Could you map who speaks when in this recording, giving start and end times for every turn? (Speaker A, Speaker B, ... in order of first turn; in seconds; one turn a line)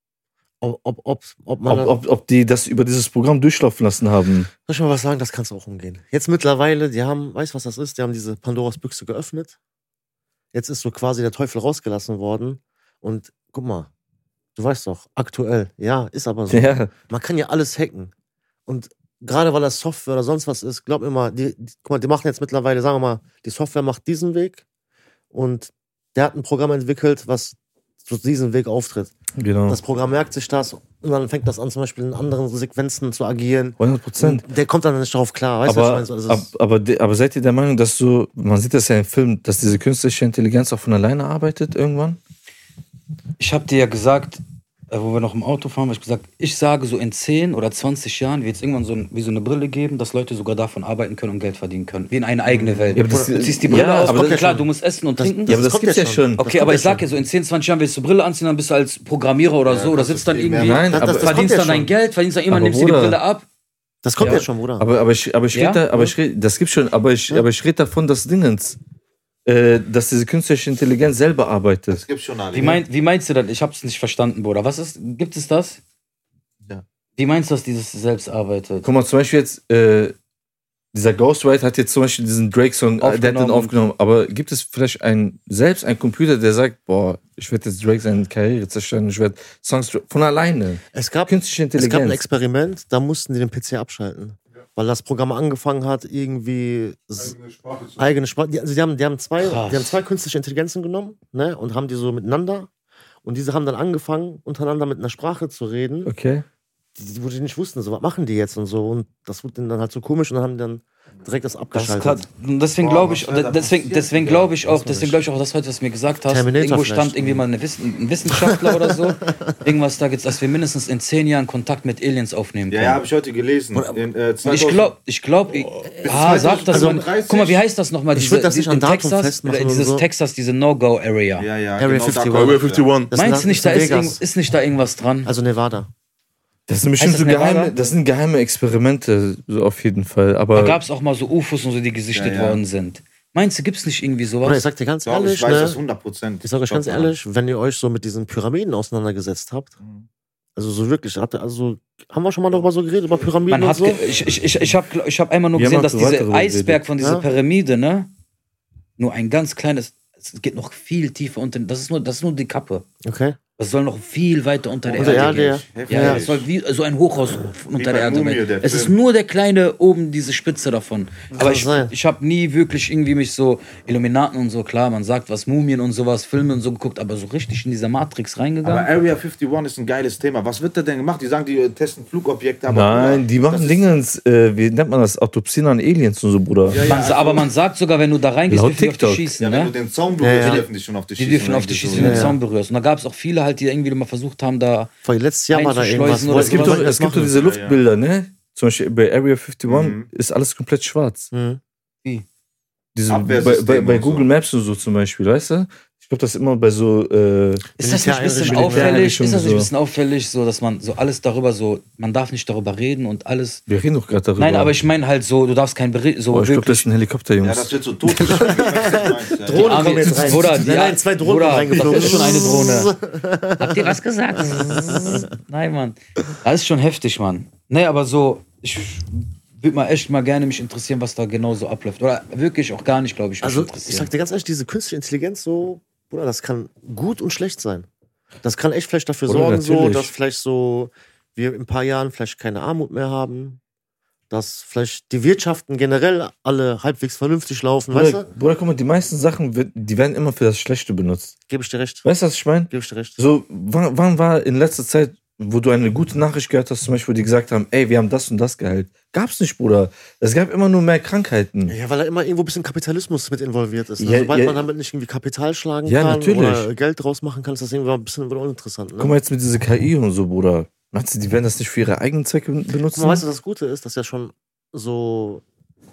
Speaker A: 0.6-2.0
Speaker B: 1.7-4.5
Speaker A: 4.7-9.6
Speaker A: 10.5-13.9
Speaker A: 14.6-18.1
Speaker B: 16.5-16.9
Speaker A: 18.7-24.6
Speaker A: 25.3-29.1
Speaker B: 29.4-29.8
Speaker A: 29.7-36.5
Speaker B: 33.8-34.5
Speaker B: 35.6-42.2
Speaker C: 43.4-55.6
Speaker A: 52.7-57.0
Speaker B: 53.0-54.5
Speaker B: 55.5-56.5
Speaker C: 56.4-63.5
Speaker D: 59.7-61.1
Speaker B: 60.6-61.5
Speaker A: 60.9-61.9
Speaker B: 62.5-63.2
Speaker A: 64.0-64.9
Speaker B: 64.2-68.8
Speaker C: 65.5-66.1
Speaker B: 69.5-72.0
Speaker D: 71.9-72.8
Speaker C: 72.5-75.8
Speaker C: 77.2-78.9
Speaker B: 78.8-80.2
Speaker B: 80.9-92.2
Speaker C: 83.0-83.7
Speaker A: 90.9-97.3
Speaker E: 97.2-98.1
Speaker A: 98.0-102.7
Speaker C: 99.4-100.0
Speaker A: 103.2-106.1
Speaker B: 106.0-106.5
Speaker A: 107.0-112.3
Speaker C: 111.7-123.0
Speaker D: 112.8-114.5
Speaker A: 114.6-115.2
Speaker A: 116.3-117.5
Speaker A: 118.3-119.5
Speaker D: 122.7-124.9
Speaker A: 123.7-124.0
Speaker C: 124.4-131.5
Speaker E: 125.5-126.0
Speaker D: 126.0-127.6
Speaker A: 126.7-127.1
Speaker A: 128.1-130.1
Speaker D: 131.4-132.9
Speaker A: 131.8-132.6
Speaker E: 132.3-133.1
Speaker A: 133.1-134.2
Speaker C: 133.1-135.3
Speaker A: 135.2-135.9
Speaker B: 136.7-140.8
Speaker C: 137.0-137.9
Speaker C: 140.5-144.7
Speaker D: 142.1-142.6
Speaker A: 144.4-145.8
Speaker D: 145.1-147.1
Speaker A: 146.4-149.7
Speaker D: 149.8-150.1
Speaker A: 150.6-154.0
Speaker C: 153.5-158.1
Speaker B: 155.6-156.8
Speaker A: 157.0-157.3
Speaker C: 159.0-162.9
Speaker A: 163.0-163.4
Speaker C: 163.6-178.9
Speaker D: 164.8-166.5
Speaker A: 165.0-166.3
Speaker D: 167.8-168.9
Speaker A: 171.3-171.9
Speaker D: 178.6-183.9
Speaker B: 182.7-186.8
Speaker D: 186.7-187.5
Speaker C: 186.8-189.7
Speaker B: 188.5-189.3
Speaker D: 189.4-192.3
Speaker A: 190.2-190.7
Speaker C: 190.4-194.9
Speaker A: 191.9-192.4
Speaker A: 195.0-197.3
Speaker C: 195.5-196.9
Speaker B: 196.3-201.3
Speaker D: 197.3-197.8
Speaker D: 199.7-200.1
Speaker A: 201.3-201.6
Speaker B: 202.9-207.7
Speaker D: 203.1-204.3
Speaker A: 207.8-209.1
Speaker C: 207.8-213.6
Speaker B: 208.4-209.7
Speaker B: 213.7-214.8
Speaker C: 214.4-216.9
Speaker B: 216.3-218.4
Speaker D: 217.4-220.2
Speaker A: 218.2-225.3
Speaker C: 219.5-222.9
Speaker B: 221.8-222.3
Speaker C: 223.6-234.1
Speaker A: 233.4-237.9
Speaker A: 238.4-243.6
Speaker B: 239.3-240.1
Speaker A: 244.3-248.3
Speaker B: 247.9-251.3
Speaker A: 251.5-252.1
Speaker B: 252.0-261.8
Speaker A: 252.7-253.2
Speaker A: 261.7-269.2
Speaker B: 264.0-264.6
Speaker B: 265.9-266.7
Speaker B: 269.0-273.2
Speaker A: 272.9-275.4